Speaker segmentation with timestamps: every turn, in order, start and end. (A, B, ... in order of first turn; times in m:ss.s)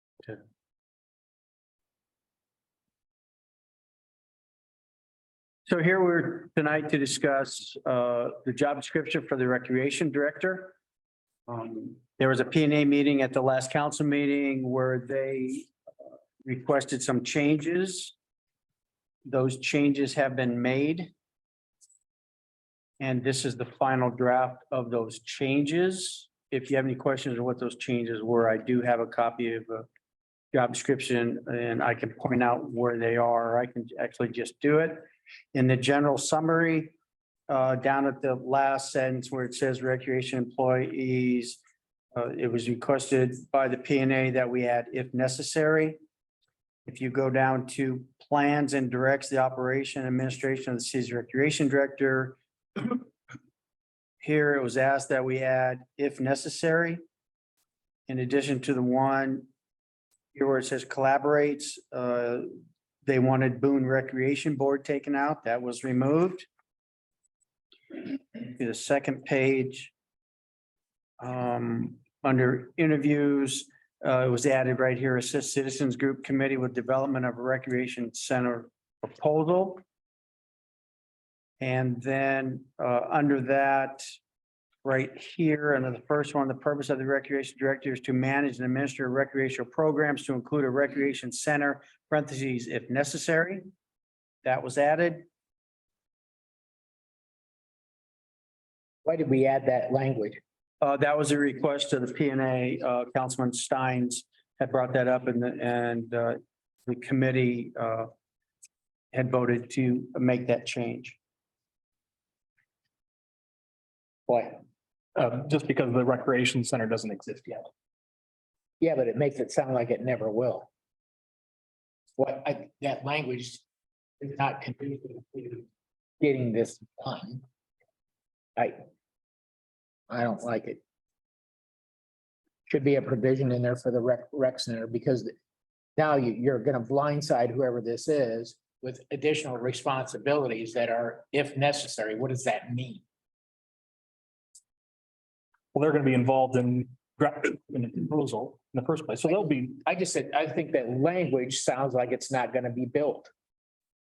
0:05.7-0:10.8 A
0:11.5-0:15.7 A
0:16.4-0:18.1 A
0:19.2-0:21.1 A
0:23.0-0:29.9 A
0:30.5-0:36.9 A
0:37.5-0:41.6 A
0:42.2-0:46.0 A
0:46.8-0:53.0 A
0:54.2-0:57.0 A
0:58.1-0:59.5 A
1:00.3-1:02.5 A
1:03.0-1:06.5 A
1:07.9-1:09.9 A
1:11.2-1:19.8 A
1:21.6-1:24.0 A
1:24.8-1:33.6 A
1:34.4-1:35.2 A
1:39.0-1:40.4 B
1:40.8-1:48.1 A
1:49.1-1:51.2 A
1:54.3-1:54.6 B
1:55.1-1:57.7 C
1:58.8-2:00.7 B
2:02.2-2:03.6 B
2:04.2-2:05.6 B
2:06.2-2:07.4 B
2:10.1-2:10.8 B
2:12.7-2:15.3 B
2:16.0-2:23.0 B
2:25.7-2:29.8 C
2:29.3-2:33.3 B